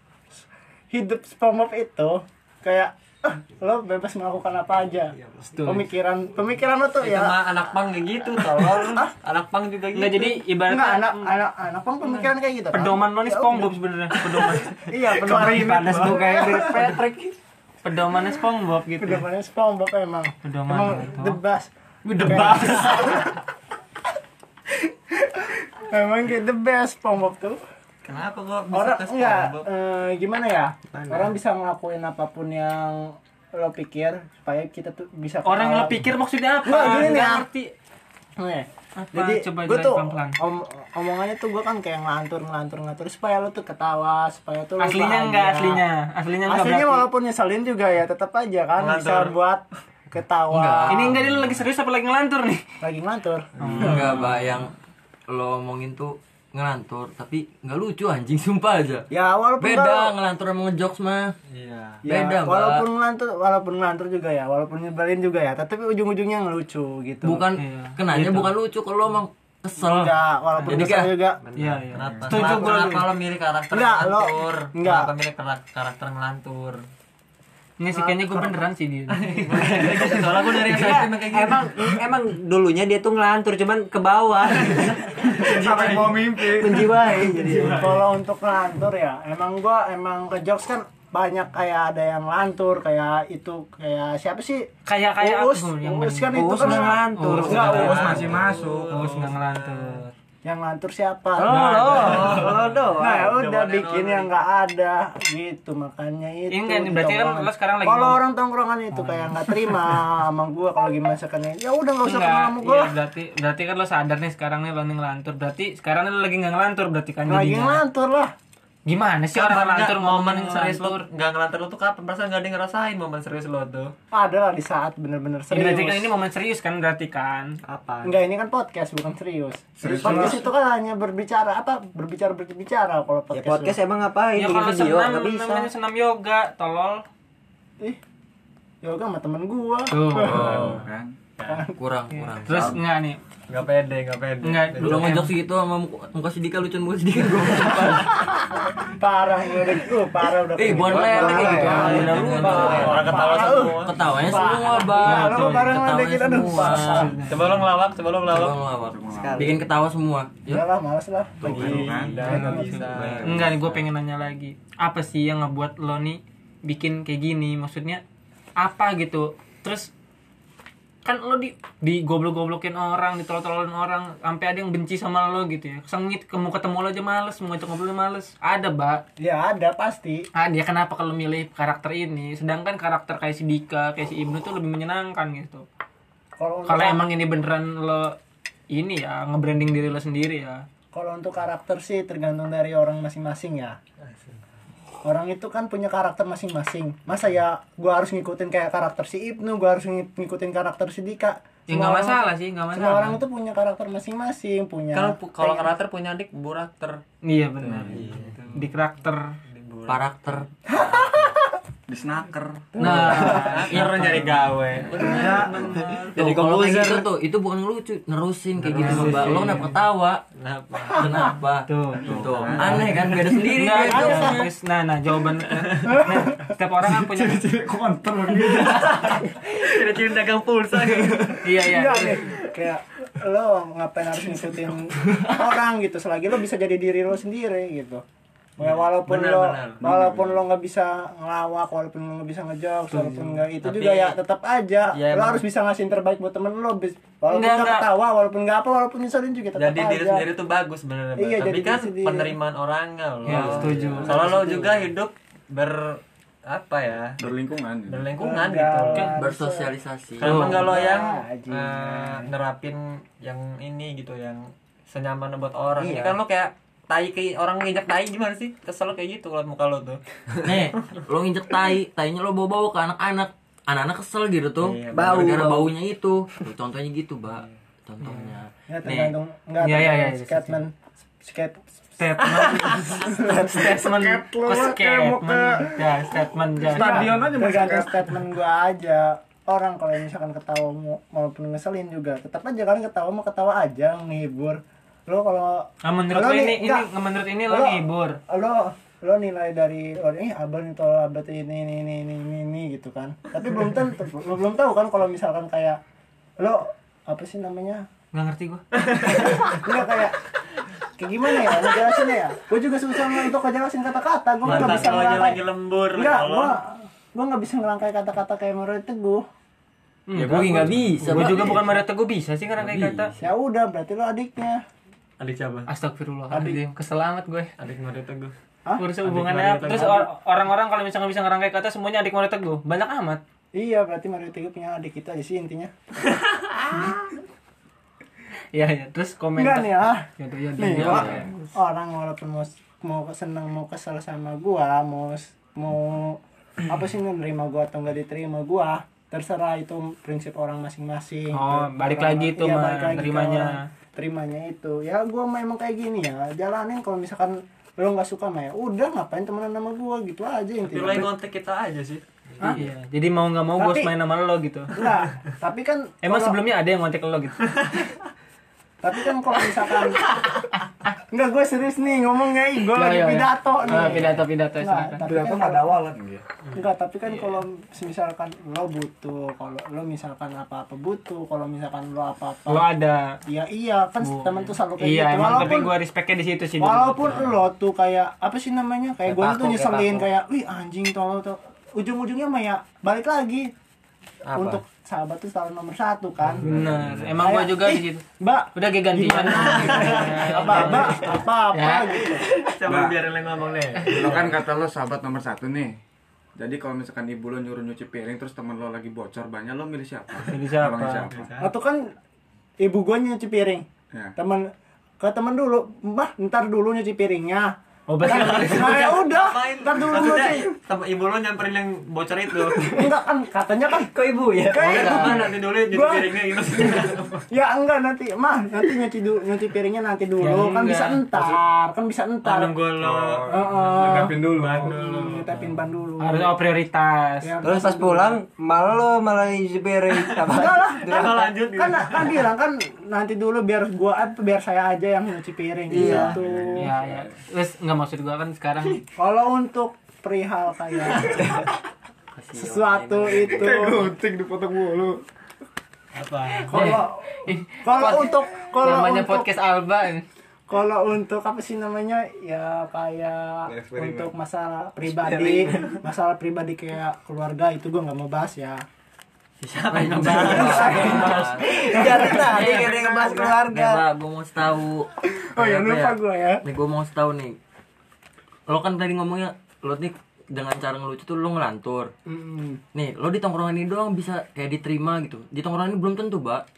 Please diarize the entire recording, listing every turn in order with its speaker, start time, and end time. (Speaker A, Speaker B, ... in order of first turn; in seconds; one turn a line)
Speaker A: 0.9-7.4
Speaker B: 5.2-5.8
Speaker C: 7.0-10.4
Speaker A: 8.3-9.1
Speaker D: 9.9-11.3
Speaker A: 10.7-13.8
Speaker D: 12.2-16.2
Speaker C: 14.2-14.6
Speaker A: 14.9-17.0
Speaker B: 14.9-17.3
Speaker D: 17.8-19.2
Speaker A: 19.0-23.4
Speaker D: 20.4-21.4
Speaker C: 22.1-23.2
Speaker D: 22.3-22.6
Speaker A: 25.1-27.6
Speaker C: 28.0-29.6
Speaker A: 28.7-36.0
Speaker B: 30.9-31.3
Speaker D: 35.4-37.7
Speaker A: 36.6-37.5
Speaker A: 38.4-45.9
Speaker D: 39.0-40.4
Speaker D: 44.8-47.1
Speaker A: 46.5-51.1
Speaker C: 48.8-49.4
Speaker E: 50.5-51.3
Speaker D: 50.9-52.7
Speaker A: 52.8-54.0
Speaker C: 53.6-54.0
Speaker D: 53.6-54.3
Speaker E: 53.7-54.7
Speaker E: 55.3-59.1
Speaker A: 59.1-60.1
Speaker E: 59.6-61.3
Speaker C: 61.5-62.0
Speaker A: 62.0-67.4
Speaker E: 62.0-62.9
Speaker E: 67.2-70.1
Speaker D: 67.5-68.5
Speaker A: 69.8-71.4
Speaker E: 70.7-71.2
Speaker D: 71.5-73.0
Speaker C: 71.9-76.8
Speaker A: 72.2-73.1
Speaker A: 73.7-75.1
Speaker D: 77.8-79.9
Speaker A: 77.9-78.6
Speaker C: 79.1-81.7
Speaker B: 79.7-88.0
Speaker F: 85.3-87.3
Speaker C: 87.4-87.8
Speaker A: 87.6-98.3
Speaker D: 94.8-98.3
Speaker B: 96.3-98.2
Speaker C: 97.5-100.0
Speaker F: 97.6-99.0
Speaker D: 98.9-100.1
Speaker A: 100.4-112.9
Speaker B: 101.4-103.3
Speaker D: 101.5-102.5
Speaker C: 102.0-104.3
Speaker D: 106.5-108.2
Speaker D: 108.9-109.8
Speaker D: 112.0-117.8
Speaker A: 117.2-118.3
Speaker D: 118.8-121.0
Speaker C: 119.3-123.9
Speaker A: 124.1-126.1
Speaker D: 125.5-127.6
Speaker B: 127.6-128.1
Speaker A: 128.0-133.8
Speaker F: 129.8-130.4
Speaker B: 130.1-130.4
Speaker B: 133.3-135.7
Speaker D: 134.3-137.0
Speaker A: 138.8-140.8
Speaker D: 139.9-140.7
Speaker E: 140.2-140.8
Speaker C: 140.4-140.8
Speaker F: 140.5-141.1
Speaker A: 141.4-141.7
Speaker E: 141.7-142.8
Speaker D: 142.2-143.2
Speaker C: 143.5-145.1
Speaker D: 144.4-145.3
Speaker E: 144.8-148.3
Speaker A: 148.2-157.2
Speaker E: 150.5-157.2
Speaker C: 150.9-154.0
Speaker B: 151.0-152.2
Speaker D: 154.8-157.6
Speaker C: 157.2-158.6
Speaker E: 158.3-160.7
Speaker F: 158.9-159.5
Speaker B: 159.1-159.6
Speaker A: 160.5-162.9
Speaker F: 161.4-162.1
Speaker C: 161.4-163.4
Speaker D: 162.2-168.0
Speaker F: 162.9-163.6
Speaker E: 163.1-163.7
Speaker D: 168.6-169.9
Speaker D: 171.0-179.0
Speaker A: 179.2-180.2
Speaker D: 180.3-185.7
Speaker A: 186.4-187.1
Speaker D: 186.7-188.2
Speaker D: 188.7-190.6
Speaker A: 190.9-193.8
Speaker A: 195.0-205.7
Speaker D: 201.7-203.2
Speaker C: 204.9-207.0
Speaker D: 207.2-209.3
Speaker C: 207.6-208.7
Speaker C: 209.5-210.0
Speaker E: 209.9-211.3
Speaker A: 210.7-211.5
Speaker F: 211.9-213.4
Speaker A: 212.8-213.7
Speaker D: 212.8-216.5
Speaker C: 213.0-215.8
Speaker A: 215.0-215.5
Speaker F: 215.0-215.8
Speaker E: 216.2-220.2
Speaker B: 216.5-217.0
Speaker C: 218.6-219.7
Speaker D: 218.7-219.7
Speaker C: 220.3-221.3
Speaker E: 220.9-224.5
Speaker D: 221.2-222.8
Speaker F: 222.0-222.8
Speaker C: 222.0-222.9
Speaker D: 223.4-227.4
Speaker A: 223.8-224.4
Speaker A: 225.8-226.5
Speaker F: 226.8-229.2
Speaker C: 228.3-231.5
Speaker D: 231.4-232.3
Speaker A: 231.6-238.0
Speaker A: 238.6-250.3
Speaker C: 238.6-239.8
Speaker F: 239.8-240.4
Speaker C: 242.9-244.2
Speaker C: 244.9-245.4
Speaker D: 247.3-247.9
Speaker C: 249.6-257.2
Speaker A: 251.2-252.3
Speaker D: 253.2-254.3
Speaker A: 253.3-254.9
Speaker F: 257.2-258.1
Speaker C: 257.9-259.1
Speaker A: 258.1-259.7
Speaker E: 258.9-260.4
Speaker C: 260.2-271.0
Speaker D: 260.2-260.8
Speaker A: 260.3-262.3
Speaker A: 265.8-266.2
Speaker E: 270.4-279.1
Speaker C: 274.6-275.5
Speaker B: 274.9-275.7
Speaker A: 278.7-285.8
Speaker D: 279.6-280.6
Speaker D: 282.0-287.1
Speaker C: 282.4-282.9
Speaker A: 286.6-296.9
Speaker F: 286.6-288.2
Speaker D: 295.8-298.2
Speaker A: 297.5-305.8
Speaker A: 306.4-307.8
Speaker D: 308.1-309.6
Speaker C: 308.9-309.6
Speaker A: 309.3-310.2
Speaker A: 311.0-315.4
Speaker C: 314.4-316.6
Speaker D: 314.5-314.9
Speaker A: 315.9-319.2
Speaker D: 320.1-323.1
Speaker F: 320.1-321.5
Speaker E: 320.2-321.8
Speaker E: 322.5-323.1
Speaker A: 323.2-324.6
Speaker C: 325.2-325.7
Speaker D: 325.7-327.5
Speaker A: 326.3-326.6
Speaker C: 327.6-328.3
Speaker D: 328.8-333.2
Speaker C: 329.0-330.0
Speaker A: 329.6-330.0
Speaker A: 333.5-335.7
Speaker D: 338.5-341.5
Speaker A: 339.4-361.1
Speaker E: 340.7-341.3
Speaker D: 351.3-353.7
Speaker C: 360.6-362.6
Speaker D: 362.4-364.9
Speaker A: 363.6-363.9
Speaker A: 364.7-366.4
Speaker D: 366.0-367.7
Speaker A: 368.8-370.4
Speaker A: 371.1-375.8
Speaker D: 372.7-375.1
Speaker F: 375.0-376.2
Speaker A: 376.5-382.7
Speaker D: 377.1-377.4
Speaker D: 382.5-383.2
Speaker A: 383.3-385.8
Speaker D: 384.0-387.3
Speaker A: 386.6-393.5
Speaker B: 389.0-390.1
Speaker C: 394.3-394.6
Speaker A: 394.3-396.5
Speaker F: 396.4-397.2
Speaker D: 396.4-402.2
Speaker A: 397.2-402.3
Speaker C: 399.4-401.2
Speaker C: 402.1-404.3
Speaker F: 402.6-402.9
Speaker F: 403.8-405.8
Speaker F: 406.4-411.3
Speaker D: 410.3-411.1
Speaker C: 411.1-411.5
Speaker A: 411.4-411.9
Speaker A: 412.6-420.5
Speaker D: 417.9-419.0
Speaker C: 418.1-422.7
Speaker A: 422.7-423.9
Speaker B: 423.9-425.3
Speaker A: 424.5-432.6
Speaker C: 424.5-427.2
Speaker D: 430.2-431.4
Speaker C: 432.2-435.6
Speaker F: 432.8-434.8
Speaker A: 433.3-436.3
Speaker D: 436.0-437.3
Speaker A: 437.2-438.2
Speaker B: 437.4-441.3
Speaker A: 440.3-446.6
Speaker C: 440.8-442.3
Speaker B: 445.7-446.2
Speaker F: 445.8-447.1
Speaker D: 446.6-448.8
Speaker A: 449.0-451.5
Speaker E: 452.1-453.5
Speaker A: 452.3-453.9
Speaker F: 453.3-455.0
Speaker C: 455.9-456.8
Speaker A: 456.4-459.3
Speaker D: 456.5-460.0
Speaker A: 460.5-468.6
Speaker F: 463.5-464.1
Speaker B: 464.9-465.8
Speaker E: 469.4-477.4
Speaker C: 469.4-472.1
Speaker B: 470.0-473.8
Speaker A: 470.1-473.3
Speaker A: 475.1-476.4
Speaker E: 478.5-481.9
Speaker A: 482.1-482.6
Speaker E: 482.7-486.4